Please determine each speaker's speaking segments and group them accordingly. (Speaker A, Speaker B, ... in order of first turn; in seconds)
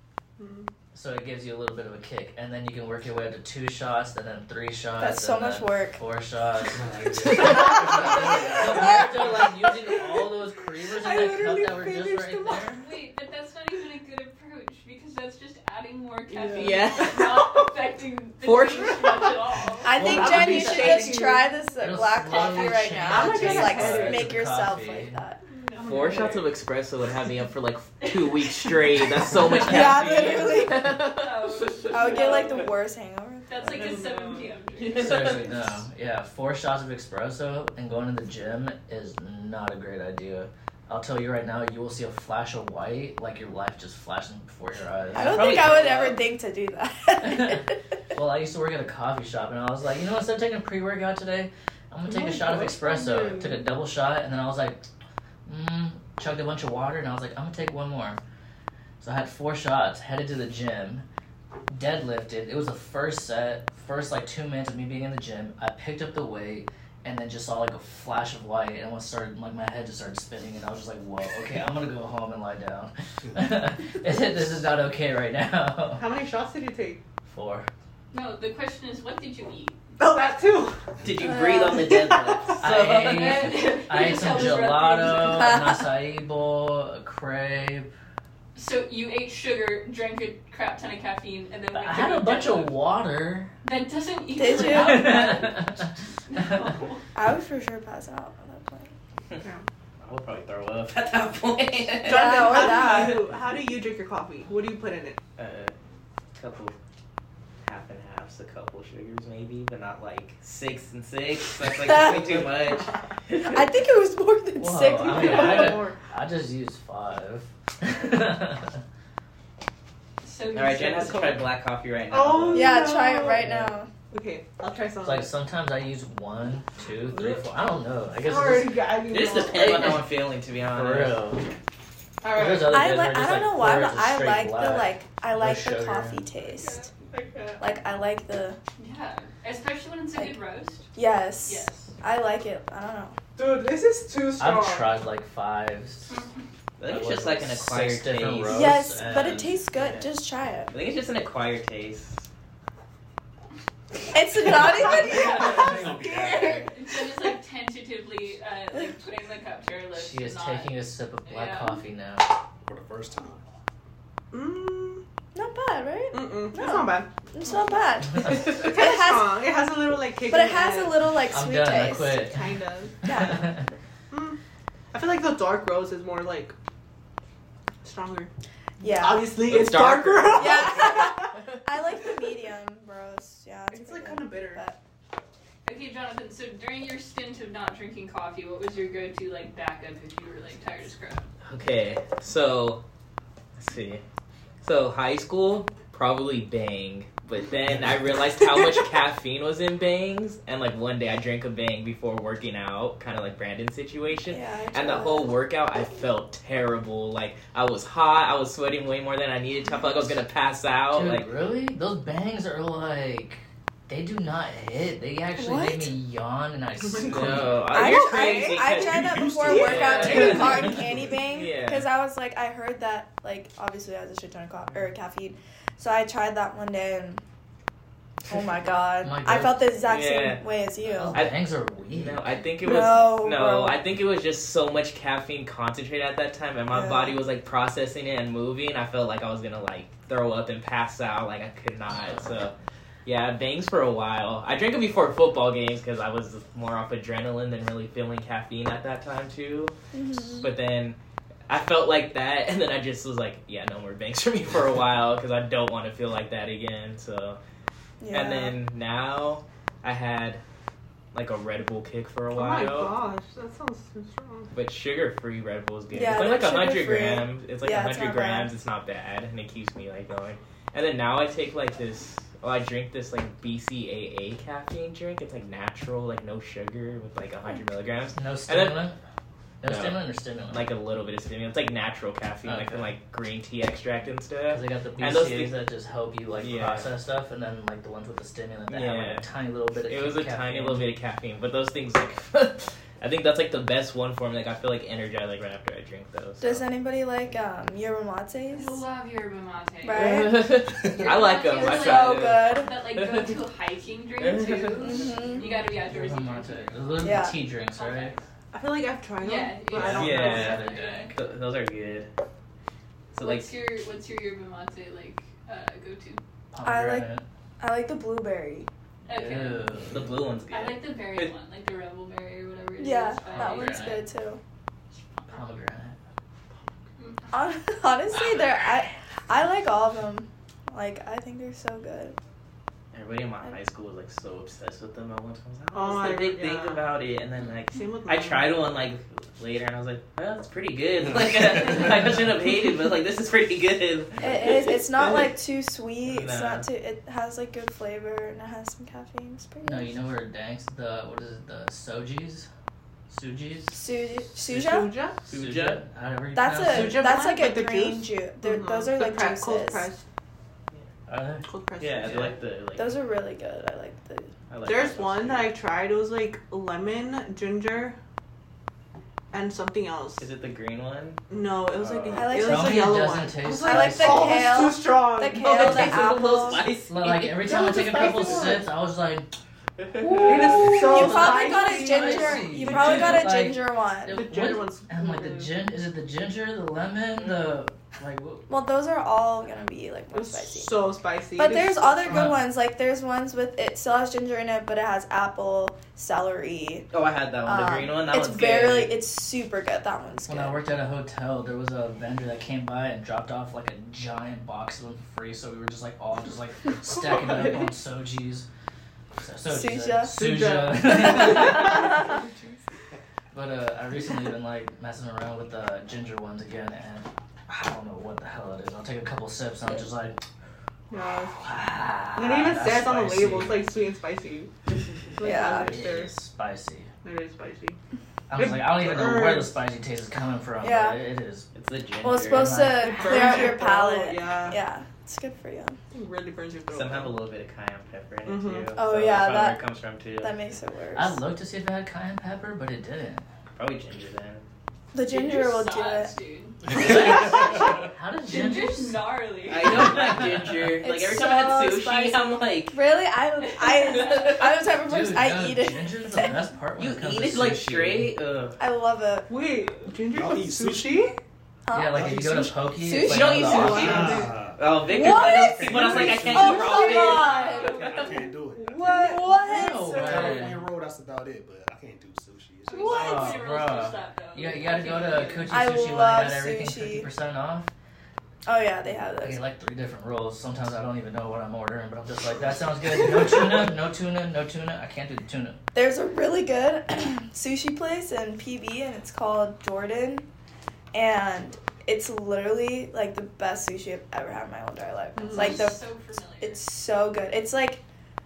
Speaker A: 0.4-0.7, 9.7-12.8, 16.3-17.4, 19.9-21.5, 22.3-24.4, 25.5-26.5, 32.0-32.4, 33.7-34.6, 52.1-53.6, 75.9-77.0, 80.0-80.9, 81.7-82.6, 99.4-99.7, 102.0-105.2, 115.0-116.0, 122.1-123.5, 124.1-125.3, 127.1-127.4, 128.2-130.0, 132.2-132.8, 136.6-137.6, 143.4-144.9, 155.3-156.7, 164.3-165.0, 166.1-167.1, 168.2-171.0, 172.2-173.0, 174.1-174.4, 174.9-176.6, 177.8-181.5, 183.7-184.6, 216.8-218.8, 219.5-220.4, 262.3-264.5, 308.5-310.6, 335.7-336.9, 337.7-338.6, 354.4-355.2, 356.6-360.0, 361.5-362.4, 364.6-368.0, 369.3-370.3, 371.3-376.1, 377.3-378.7, 380.2-383.3, 384.1-385.5, 390.1-392.4, 407.2-407.6, 410.2-412.6, 420.9-421.6, 422.1-424.5, 425.1-426.1, 427.0-427.8, 428.3-429.6, 432.8-434.6, 435.9-437.2, 438.2-438.7, 459.3-461.2, 463.6-464.3, 466.4-467.9, 468.6-470.5, 495.2-495.7
Speaker B: 0.9-12.8, 19.9-21.3, 21.8-25.2, 34.9-45.6, 47.2-54.8, 55.5-58.2, 59.0-61.0, 61.7-76.1, 77.3-77.7, 82.6-87.9, 91.7-93.5, 94.5-96.5, 114.6-118.8, 123.3-123.7, 125.0-128.8, 130.7-131.5, 132.3-136.2, 144.4-146.2, 146.9-149.6, 159.9-162.3, 171.3-173.7, 210.9-217.7, 220.0-220.4, 229.0-229.6, 230.8-232.2, 278.1-279.0, 279.6-280.7, 282.4-282.9, 284.5-290.9, 305.8-308.2, 309.7-311.1, 316.5-317.2, 319.1-320.1, 323.3-324.1, 325.3-326.0, 349.6-352.5, 353.1-353.8, 355.3-357.1, 361.1-361.5, 372.4-374.7, 376.9-379.3, 380.0-388.5, 392.1-392.4, 400.3-408.5, 409.2-412.1, 413.3-420.2, 421.4-423.7, 425.4-426.9, 428.3-431.5, 432.3-433.1, 440.9-443.2, 446.7-449.0, 449.8-450.7, 454.7-458.1, 461.7-464.2, 469.2-470.6, 472.9-477.7, 479.2-485.6
Speaker C: 5.0-6.0, 19.8-25.4, 29.6-31.1, 31.9-33.8, 45.1-47.8, 81.2-82.0, 85.3-85.9, 94.4-95.3, 97.2-98.9, 102.1-103.2, 111.7-112.4, 113.4-115.8, 122.5-123.9, 132.6-136.9, 137.6-138.6, 140.9-143.2, 148.5-150.7, 154.1-155.5, 165.3-169.4, 170.3-172.2, 173.0-173.6, 178.8-179.3, 180.4-184.8, 204.3-205.3, 215.4-215.9, 217.7-227.2, 228.3-231.3, 232.6-233.8, 236.7-237.2, 249.9-250.5, 258.0-258.6, 265.9-268.5, 296.4-298.8, 299.8-300.5, 301.5-302.7, 304.8-305.5, 307.0-307.4, 316.6-317.1, 317.6-318.7, 322.8-324.4, 327.3-332.2, 344.2-349.9, 353.7-354.9, 356.3-359.9, 362.8-364.3, 372.1-373.0, 373.6-376.6, 380.7-384.2, 388.5-396.9, 397.4-400.6, 409.5-410.3, 425.2-425.7, 430.6-431.0, 432.0-435.8, 438.8-439.6, 440.2-441.2, 444.9-446.1, 450.8-456.3, 458.6-459.3, 461.7-464.2, 464.9-467.9, 468.8-469.9, 475.5-477.1, 478.5-479.4, 485.7-490.3, 490.9-495.8, 496.4-497.8
Speaker D: 6.8-9.3, 154.8-156.8, 162.7-163.4, 217.1-217.5, 218.8-221.2, 460.1-461.1, 461.9-462.7, 463.6-466.8, 467.6-469.3, 470.0-473.1
Speaker E: 12.8-20.2, 28.1-28.7, 31.1-32.7, 33.5-35.4, 78.1-79.8, 82.9-85.6, 88.5-92.7, 93.6-97.0, 120.2-121.3, 138.8-140.9, 141.4-141.9, 146.1-146.4, 155.1-161.8, 185.7-191.3, 298.5-308.2, 309.2-311.1, 313.1-316.2, 319.1-319.8, 320.5-324.0, 325.1-325.4, 327.0-327.4, 445.0-447.7, 448.3-450.3, 453.5-454.4, 467.4-468.1, 472.7-475.7, 495.3-496.6
Speaker F: 16.5-17.5, 18.4-19.3, 25.8-31.2, 34.8-35.6, 45.1-46.2, 81.0-83.7, 100.0-103.2, 105.4-105.8, 106.3-106.8, 107.6-113.6, 120.5-122.9, 129.1-131.2, 146.8-148.8, 149.8-150.1, 150.7-152.3, 179.3-181.0, 191.4-192.8, 193.6-194.0, 194.6-211.3, 217.1-221.9, 229.9-230.5, 231.1-231.4, 231.9-242.5, 243.1-257.4, 258.1-260.4, 261.1-262.9, 264.5-278.8, 279.6-280.0, 280.5-285.6, 286.4-286.9, 288.7-289.3, 289.8-296.6, 299.9-303.3, 304.2-305.0, 309.8-312.1, 313.1-313.5, 319.9-321.3, 332.9-345.3, 346.0-346.7, 355.3-355.8, 361.8-363.0, 364.5-365.5, 370.2-371.2, 371.7-372.4, 375.3-378.2, 379.8-380.8, 396.9-399.0, 431.5-432.7, 436.7-440.4, 443.6-444.5, 449.5-452.8, 456.8-458.6, 463.0-468.0, 470.1-470.6